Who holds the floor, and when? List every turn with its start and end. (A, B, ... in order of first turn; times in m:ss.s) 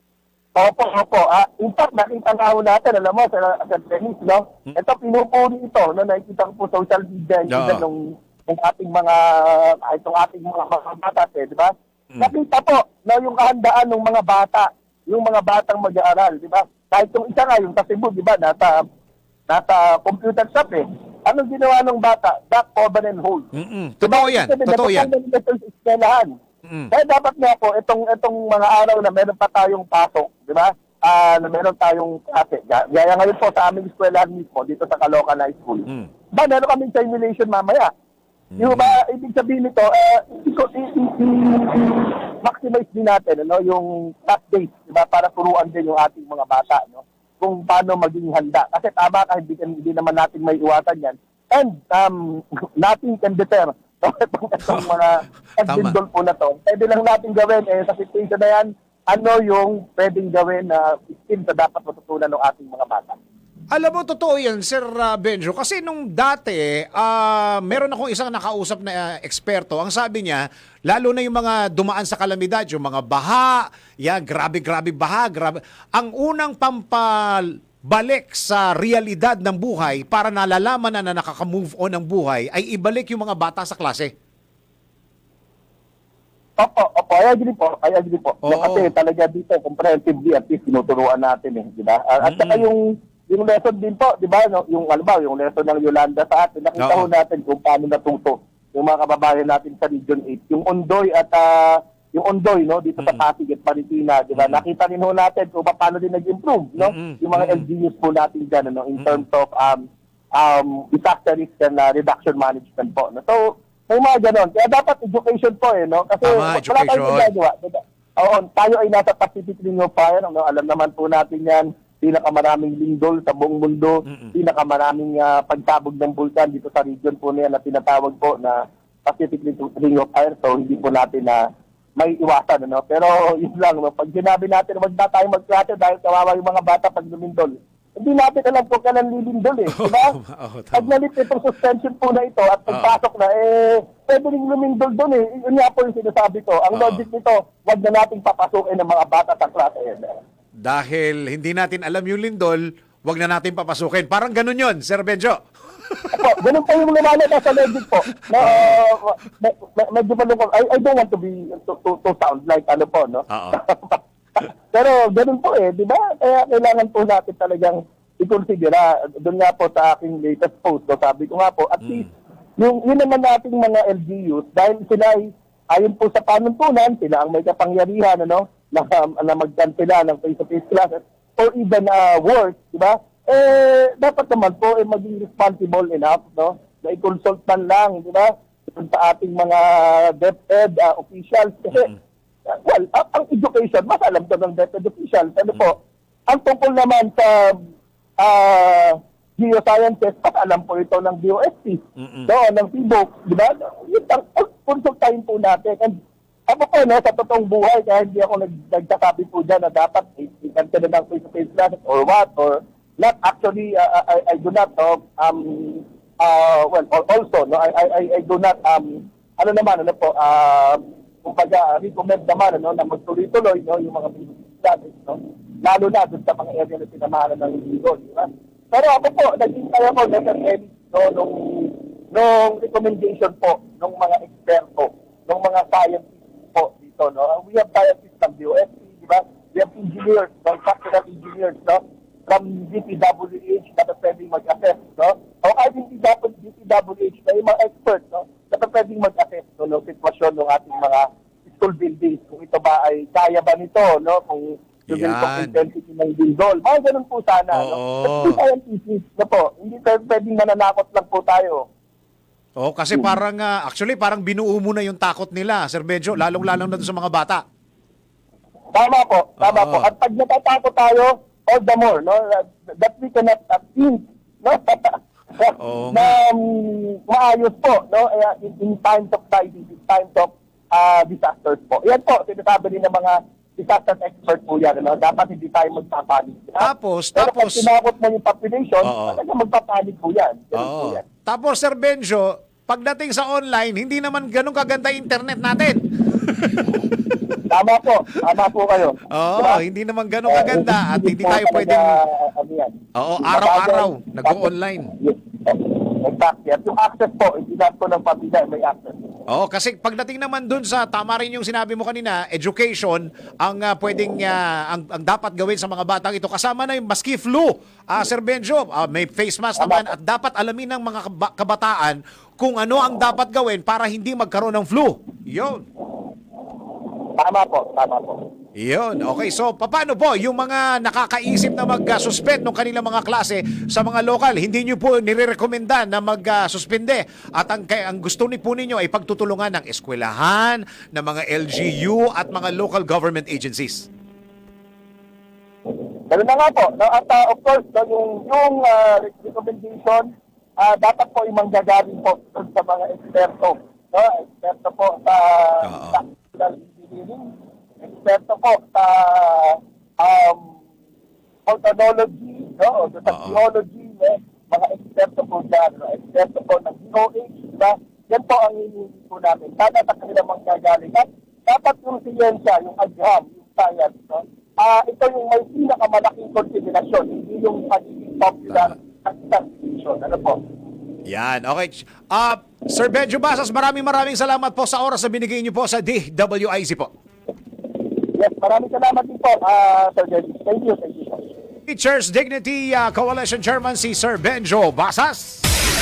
0:00.6-0:18.8 A
0:07.5-0:07.8 B
0:19.5-0:23.5 A
0:23.5-0:25.1 B
0:24.0-0:26.3 A
0:26.6-0:26.9 B
0:26.9-0:37.9 A
0:38.5-0:39.0 B
0:38.6-1:03.2 A
0:55.6-0:56.0 B
1:03.7-1:24.1 B
1:26.6-1:49.8 A
1:28.4-1:28.9 B
1:32.2-1:32.7 B
1:36.8-1:37.1 B
1:44.4-1:44.6 B
1:46.8-1:47.7 B
1:49.0-1:49.2 B
1:50.4-2:11.4 A
1:56.2-1:57.3 B
2:04.1-2:04.3 B
2:12.0-2:20.2 A
2:19.7-2:21.0 B
2:20.7-2:30.1 A
2:22.7-2:23.0 B
2:26.7-2:27.0 B
2:30.6-2:36.2 B
2:36.1-2:52.0 A
2:38.4-2:38.8 B
2:43.3-2:43.6 B
2:51.8-2:52.1 B
2:52.6-3:11.9 A
3:12.5-3:15.8 A
3:16.3-3:17.6 A
3:18.2-3:25.9 A
3:22.0-3:22.3 B
3:26.5-4:21.6 A
4:14.9-4:15.6 B
4:17.5-4:18.4 B
4:22.6-4:27.4 B
4:28.7-4:51.0 A
4:29.4-4:29.9 B
4:35.6-4:36.1 B
4:46.6-4:47.7 B
4:48.8-4:49.2 B
4:50.6-4:57.0 B
4:57.5-4:59.6 A
4:59.1-5:01.9 B
5:00.3-5:09.0 A
5:03.0-5:04.9 B
5:09.3-5:25.7 B
5:19.6-5:19.9 A
5:27.2-5:28.2 A
5:28.6-5:43.9 B
5:46.1-5:50.1 A
5:50.6-6:00.6 A
5:55.6-5:56.0 B
6:01.4-6:20.4 A
6:03.1-6:03.4 B
6:21.1-6:26.9 B
6:28.2-6:31.2 A
6:31.7-6:35.4 B